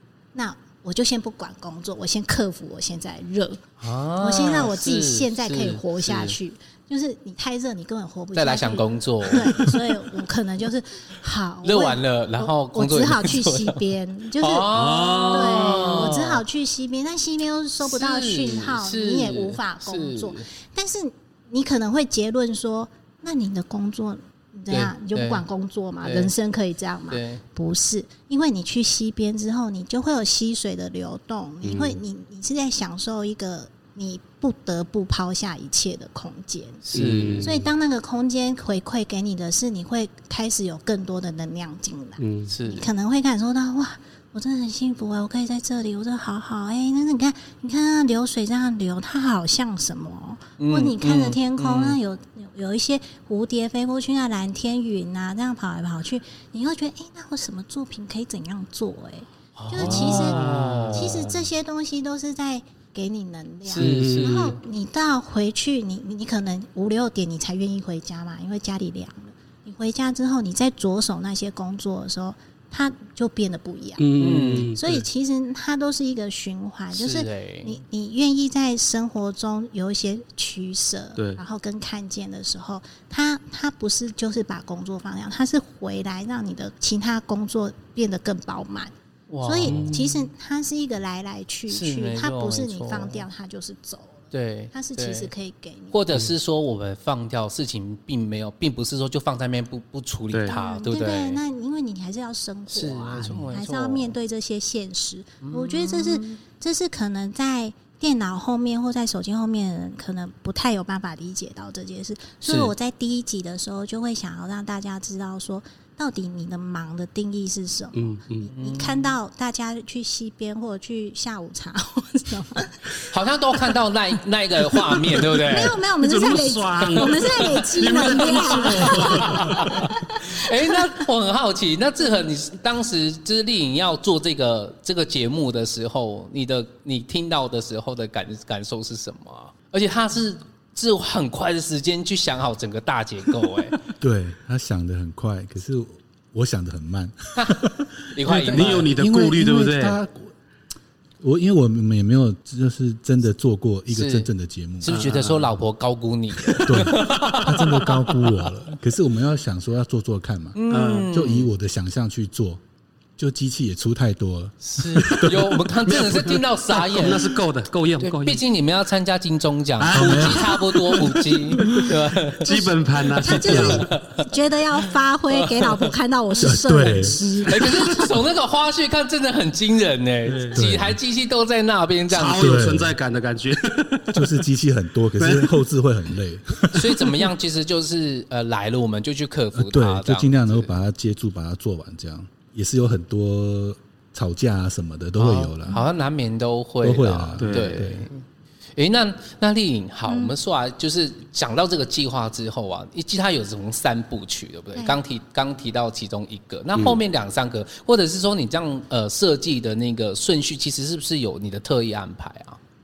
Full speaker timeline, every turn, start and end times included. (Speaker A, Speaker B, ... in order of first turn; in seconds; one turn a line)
Speaker A: 0.3-3.6
Speaker B: 3.8-6.4
Speaker A: 4.2-14.7
Speaker B: 8.3-9.8
Speaker B: 11.6-13.8
Speaker B: 14.4-16.4
Speaker C: 14.7-16.1
Speaker A: 15.3-36.8
Speaker B: 17.8-20.5
Speaker B: 24.7-25.4
Speaker B: 26.0-26.3
Speaker B: 27.1-27.4
Speaker C: 31.6-32.0
Speaker B: 36.8-37.5
Speaker C: 36.9-37.7
Speaker A: 37.4-88.9
Speaker C: 42.2-42.5
Speaker B: 42.5-42.9
Speaker B: 50.6-52.0
Speaker B: 59.6-61.4
Speaker C: 59.8-61.3
Speaker B: 63.7-64.6
Speaker C: 63.7-64.5
Speaker C: 74.0-75.1
Speaker B: 74.2-74.7
Speaker B: 76.9-77.8
Speaker B: 89.3-89.9
Speaker A: 89.4-96.0
Speaker C: 89.7-90.3
Speaker B: 91.7-93.3
Speaker B: 94.3-95.3
Speaker B: 95.9-101.4
Speaker A: 100.5-123.1
Speaker B: 102.7-104.2
Speaker B: 105.4-106.4
Speaker B: 112.5-112.7
Speaker C: 118.0-118.5
Speaker B: 118.5-119.1
Speaker B: 123.1-125.8
Speaker A: 124.7-130.7
Speaker C: 126.0-129.9
Speaker B: 127.0-143.8
Speaker D: 144.0-150.3
Speaker B: 148.1-148.9
Speaker C: 148.4-150.0
Speaker D: 151.2-155.0
Speaker B: 153.9-154.3
Speaker B: 154.8-158.3
Speaker C: 154.8-155.5
Speaker D: 156.6-162.6
Speaker B: 160.6-161.5
Speaker C: 160.7-161.2
Speaker D: 163.2-165.6
Speaker B: 164.6-167.3
Speaker C: 165.8-168.4
Speaker B: 168.0-172.5
Speaker C: 169.8-173.9
Speaker D: 169.8-171.9
Speaker A: 172.5-178.1
Speaker D: 173.4-173.8
Speaker B: 173.5-174.2
Speaker B: 175.3-175.9
Speaker D: 176.4-177.2
Speaker B: 177.4-182.6
Speaker C: 180.3-180.6
Speaker D: 180.5-181.0
Speaker C: 182.1-184.4
Speaker D: 182.3-182.9
Speaker D: 184.1-187.2
Speaker C: 185.2-185.6
Speaker B: 186.7-190.7
Speaker D: 189.6-195.8
Speaker B: 195.2-198.2
Speaker D: 196.8-198.1
Speaker C: 197.4-197.8
Speaker B: 198.8-212.6
Speaker A: 200.1-200.3